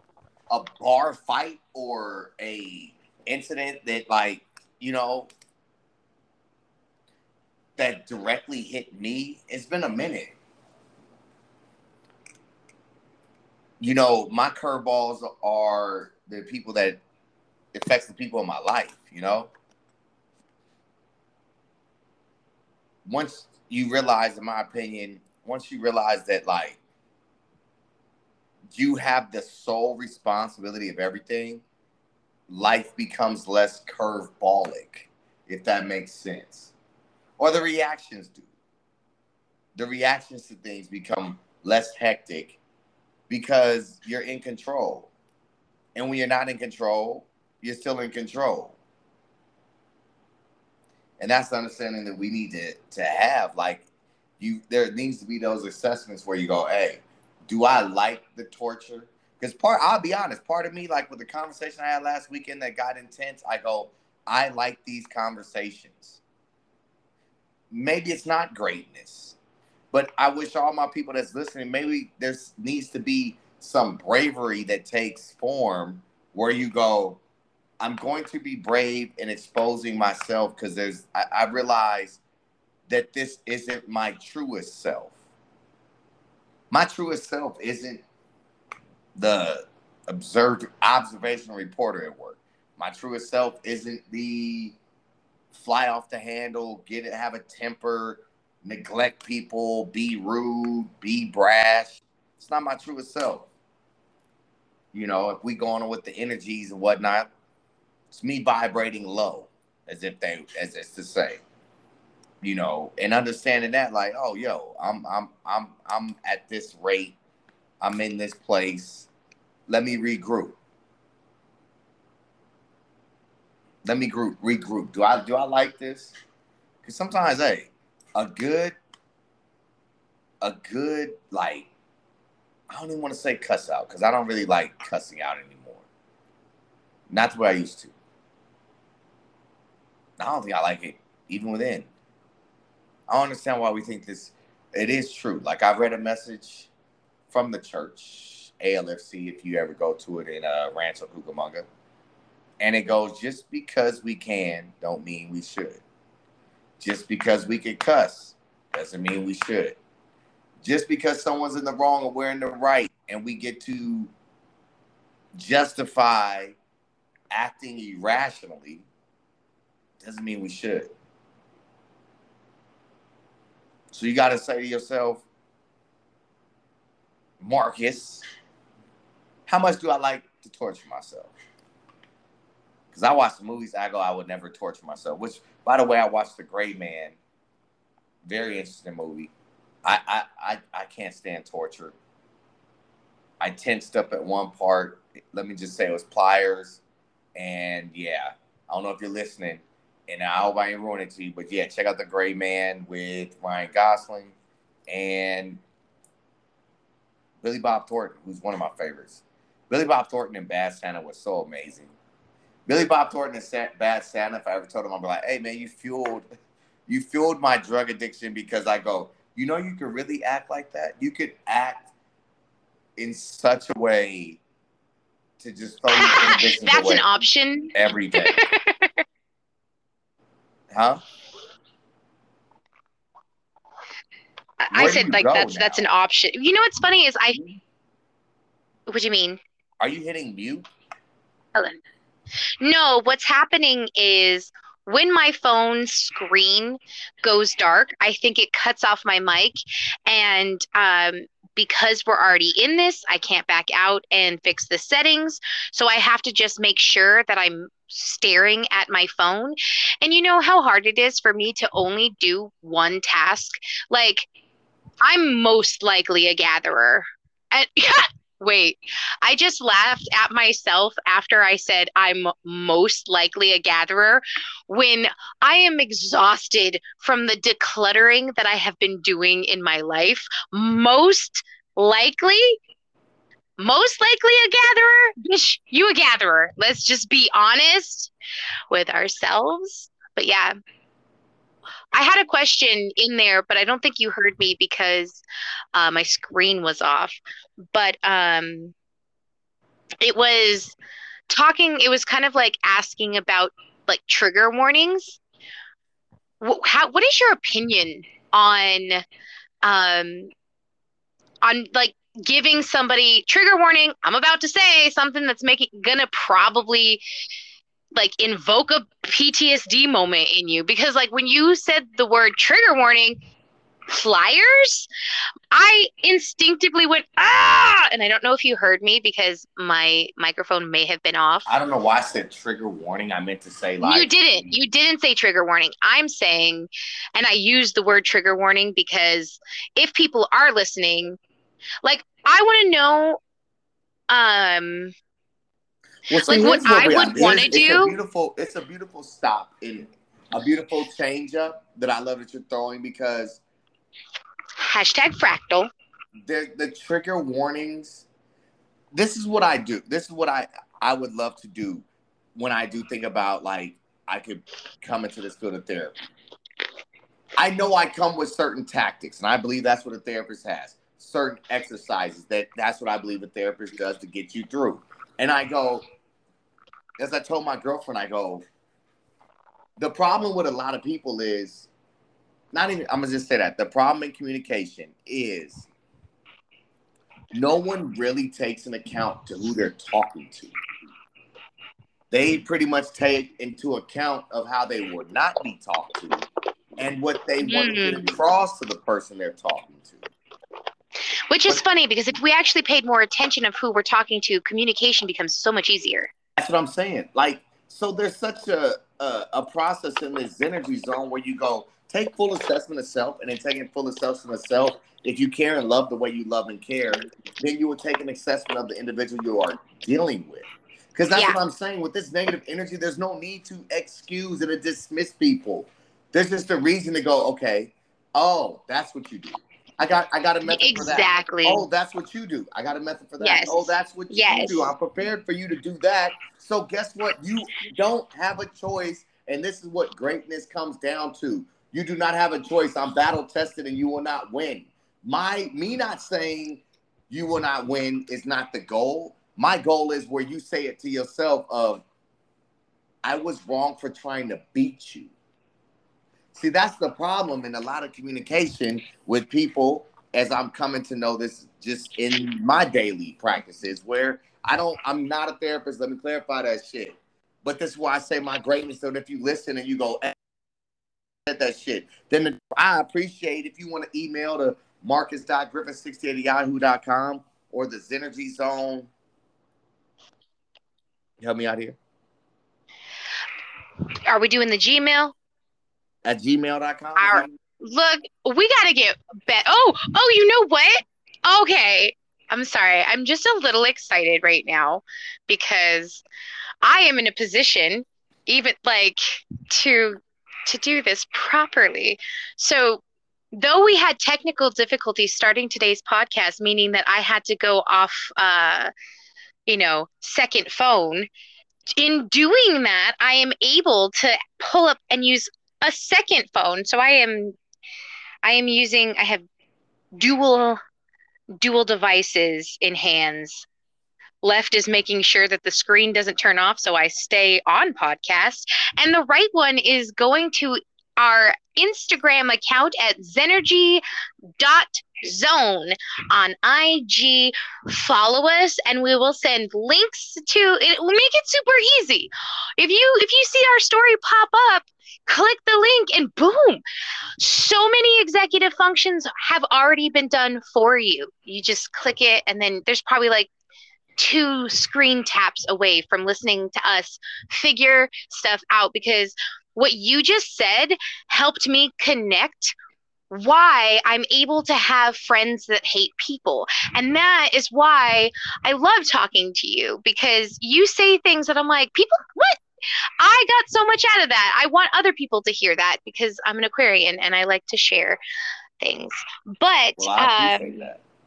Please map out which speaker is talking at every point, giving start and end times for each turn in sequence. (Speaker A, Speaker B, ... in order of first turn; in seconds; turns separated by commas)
Speaker A: 0.5-5.3, Speaker A: 7.8-10.3, Speaker A: 13.8-17.0, Speaker A: 17.7-19.5, Speaker A: 23.1-26.8, Speaker A: 28.7-31.6, Speaker A: 32.5-36.7, Speaker A: 37.4-38.5, Speaker A: 39.8-42.6, Speaker A: 43.3-45.1, Speaker A: 45.9-48.8, Speaker A: 51.2-53.8, Speaker A: 54.4-66.2, Speaker A: 67.7-69.3, Speaker A: 69.9-77.2, Speaker A: 77.8-82.2, Speaker A: 82.9-85.1, Speaker A: 86.7-88.0, Speaker A: 89.2-94.8, Speaker A: 95.5-103.5, Speaker A: 104.9-107.3, Speaker A: 108.1-111.4, Speaker A: 112.4-117.2, Speaker A: 117.8-119.1, Speaker A: 119.7-120.6, Speaker A: 123.8-126.1, Speaker A: 126.8-128.8, Speaker A: 130.4-131.7, Speaker A: 132.7-135.8, Speaker A: 137.1-137.9, Speaker A: 140.2-141.9, Speaker A: 143.1-146.7, Speaker A: 147.3-151.7, Speaker A: 152.6-155.8, Speaker A: 156.8-159.8, Speaker A: 160.6-164.1, Speaker A: 165.3-166.6, Speaker A: 167.3-168.8, Speaker A: 170.0-170.9, Speaker A: 173.9-175.2, Speaker A: 177.4-178.2, Speaker A: 179.5-181.3, Speaker A: 182.9-187.2, Speaker A: 188.2-189.3, Speaker A: 189.8-191.9, Speaker A: 193.4-196.8, Speaker A: 197.3-204.3, Speaker A: 204.9-205.6, Speaker A: 207.4-211.9, Speaker A: 212.7-216.2, Speaker A: 216.9-221.9, Speaker A: 223.0-224.4, Speaker A: 225.4-227.0, Speaker B: 225.9-229.0, Speaker A: 227.7-228.4, Speaker A: 230.7-231.0, Speaker B: 234.6-237.4, Speaker A: 234.7-235.8, Speaker B: 238.9-239.4, Speaker A: 239.8-240.7, Speaker B: 242.6-264.2, Speaker B: 265.0-282.6, Speaker B: 283.6-288.1, Speaker B: 288.7-290.5, Speaker B: 291.9-295.2, Speaker B: 295.7-297.2, Speaker B: 297.7-298.7, Speaker B: 300.0-300.8, Speaker B: 301.3-305.2, Speaker B: 306.4-309.0, Speaker B: 309.6-310.3, Speaker B: 311.4-317.0, Speaker B: 317.9-323.2, Speaker B: 323.9-324.9, Speaker B: 325.5-331.5, Speaker A: 331.4-334.5, Speaker B: 333.8-341.2, Speaker B: 341.8-343.2, Speaker B: 344.1-344.9, Speaker A: 346.1-353.4, Speaker B: 346.2-347.9, Speaker B: 354.6-355.7, Speaker A: 356.2-358.1, Speaker A: 358.9-361.8, Speaker A: 362.4-365.9, Speaker A: 367.4-375.9, Speaker A: 377.0-378.4, Speaker A: 379.8-381.7, Speaker A: 382.5-385.7, Speaker A: 387.3-390.6, Speaker A: 392.1-396.3, Speaker A: 396.8-400.1, Speaker B: 397.4-398.0, Speaker B: 401.3-406.1, Speaker A: 406.4-451.8, Speaker B: 430.5-431.6, Speaker B: 433.2-434.7, Speaker A: 453.0-455.1, Speaker A: 456.3-470.1, Speaker A: 471.2-478.9, Speaker A: 481.2-481.8, Speaker B: 484.1-485.1, Speaker A: 486.0-487.3, Speaker B: 487.0-496.0, Speaker B: 496.6-502.8, Speaker B: 503.3-508.7, Speaker B: 509.5-511.1, Speaker B: 511.7-517.4, Speaker B: 518.2-519.2, Speaker B: 520.0-520.6, Speaker B: 521.4-523.5, Speaker B: 524.2-533.8, Speaker B: 534.4-546.6, Speaker B: 547.2-553.3, Speaker B: 554.0-562.5, Speaker B: 563.1-572.4, Speaker B: 573.0-578.0, Speaker B: 578.6-580.5, Speaker A: 579.8-580.8